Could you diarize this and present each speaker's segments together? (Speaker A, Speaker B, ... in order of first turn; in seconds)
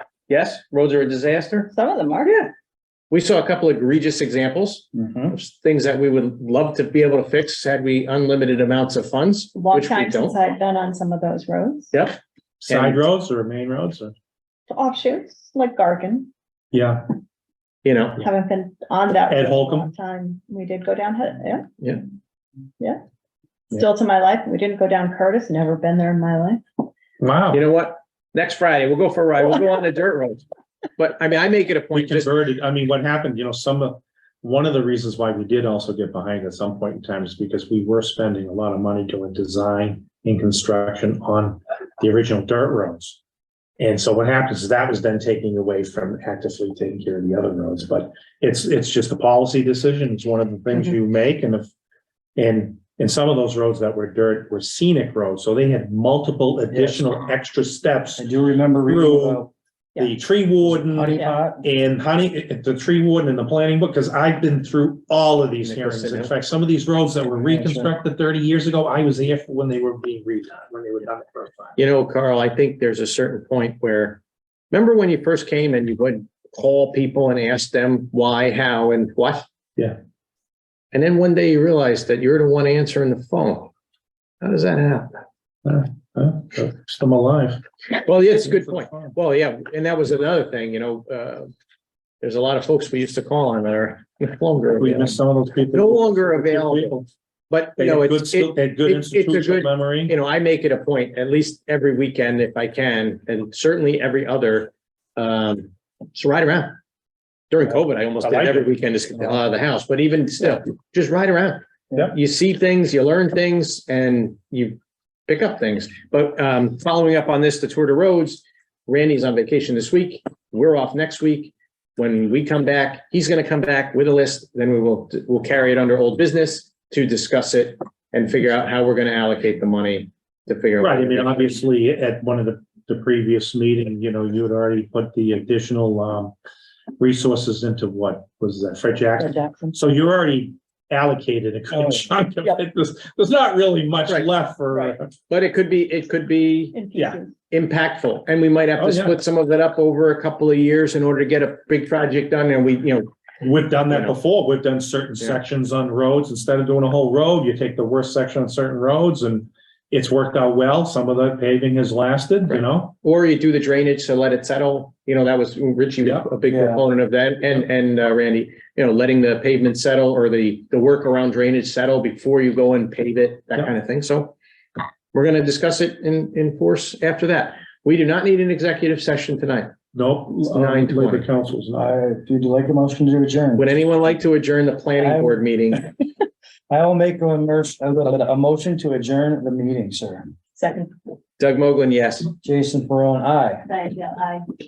Speaker A: 0.3-1.7, 3.1-10.4, 12.7-13.0, 17.8-18.2, 27.5-30.4, 31.0-32.3, 65.6-66.3, 71.8-74.2, 74.7-79.5, 80.9-83.7, 84.4-85.1, 88.0-91.5, 92.2-95.2, 95.7-97.0, 97.5-106.7, 107.5-131.7, 144.1-146.8, 147.5-153.1, 153.9-154.1, 162.5-174.3, 175.1-179.8, 180.4-181.3, 183.6-185.9, 191.4-192.3
Speaker B: 1.7-2.5, 9.6-11.9, 14.7-16.3, 18.2-21.7, 23.7-26.6, 61.2-61.4, 139.2-139.8, 146.7-147.3, 190.6-190.9, 193.7-194.4
Speaker C: 4.9-5.4, 56.7-57.1, 58.2-59.5, 60.6-61.6, 67.3-67.9, 141.7-142.1, 166.5-166.8, 181.8-183.7, 185.0-185.8, 186.7-190.3, 192.4-193.7
Speaker D: 12.6-14.1, 16.7-17.1, 19.3-19.9, 27.2-27.6, 31.9-43.2, 43.8-51.7, 52.4-58.3, 58.9-71.8, 85.7-87.6, 88.4-89.2, 94.8-97.1, 97.8-100.2, 108.2-108.8, 130.8-136.3, 137.0-145.1, 146.9-147.2, 148.8-149.2, 153.4-162.9, 166.0-166.3, 179.9-181.9